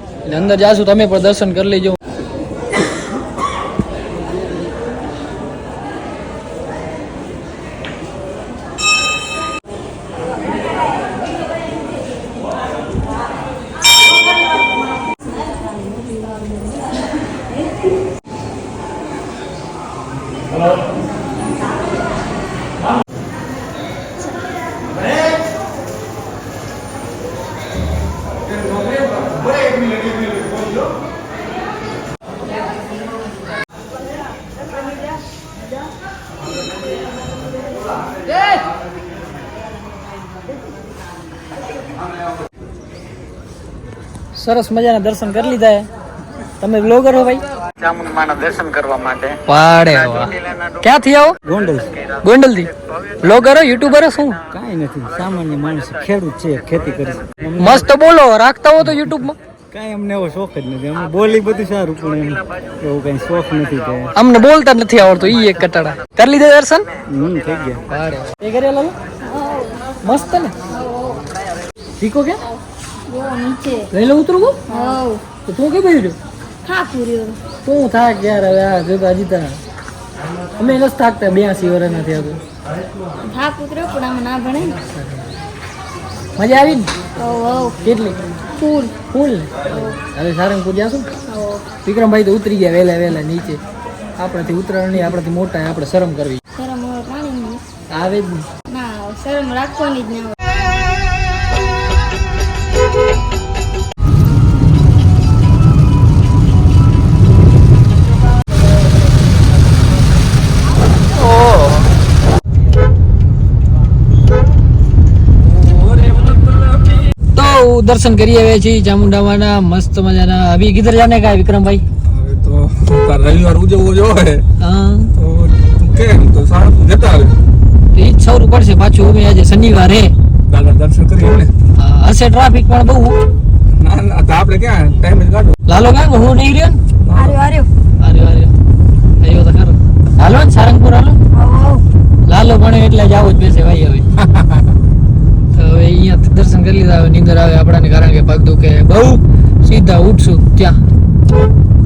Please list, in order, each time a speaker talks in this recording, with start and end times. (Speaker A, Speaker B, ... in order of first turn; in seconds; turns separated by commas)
Speaker A: 0.2-2.0, Speaker A: 44.3-45.9, Speaker A: 46.6-47.4, Speaker A: 49.5-51.4, Speaker B: 51.4-51.9, Speaker A: 52.2-52.7, Speaker A: 53.2-54.4, Speaker B: 54.5-57.9, Speaker A: 57.6-59.4, Speaker B: 58.8-59.2, Speaker B: 59.7-64.1, Speaker A: 64.2-66.8, Speaker B: 67.1-67.8, Speaker A: 67.9-68.9, Speaker C: 69.2-69.8, Speaker A: 70.0-70.5, Speaker C: 70.7-71.2, Speaker A: 72.0-72.4, Speaker C: 73.0-73.9, Speaker A: 73.9-74.6, Speaker C: 74.7-75.2, Speaker A: 75.4-76.2, Speaker C: 76.6-77.4, Speaker A: 77.6-79.6, Speaker A: 80.6-82.4, Speaker C: 83.2-84.8, Speaker A: 86.4-86.9, Speaker C: 87.2-87.8, Speaker A: 87.8-88.2, Speaker C: 88.5-89.0, Speaker A: 89.1-91.1, Speaker C: 89.6-90.0, Speaker C: 91.3-91.7, Speaker A: 91.8-93.6, Speaker A: 94.2-96.4, Speaker C: 96.5-97.6, Speaker A: 97.9-98.5, Speaker C: 98.7-100.4, Speaker D: 115.5-117.0, Speaker A: 117.3-121.8, Speaker D: 122.0-124.4, Speaker A: 124.6-125.1, Speaker D: 125.2-127.3, Speaker A: 127.9-130.1, Speaker D: 130.5-131.5, Speaker A: 131.8-133.2, Speaker D: 133.8-135.5, Speaker A: 135.7-136.8, Speaker D: 137.1-137.4, Speaker C: 137.1-137.7, Speaker A: 138.0-138.5, Speaker A: 139.2-141.2, Speaker C: 141.3-141.8, Speaker A: 142.3-144.1, Speaker D: 144.2-144.6, Speaker A: 145.5-150.8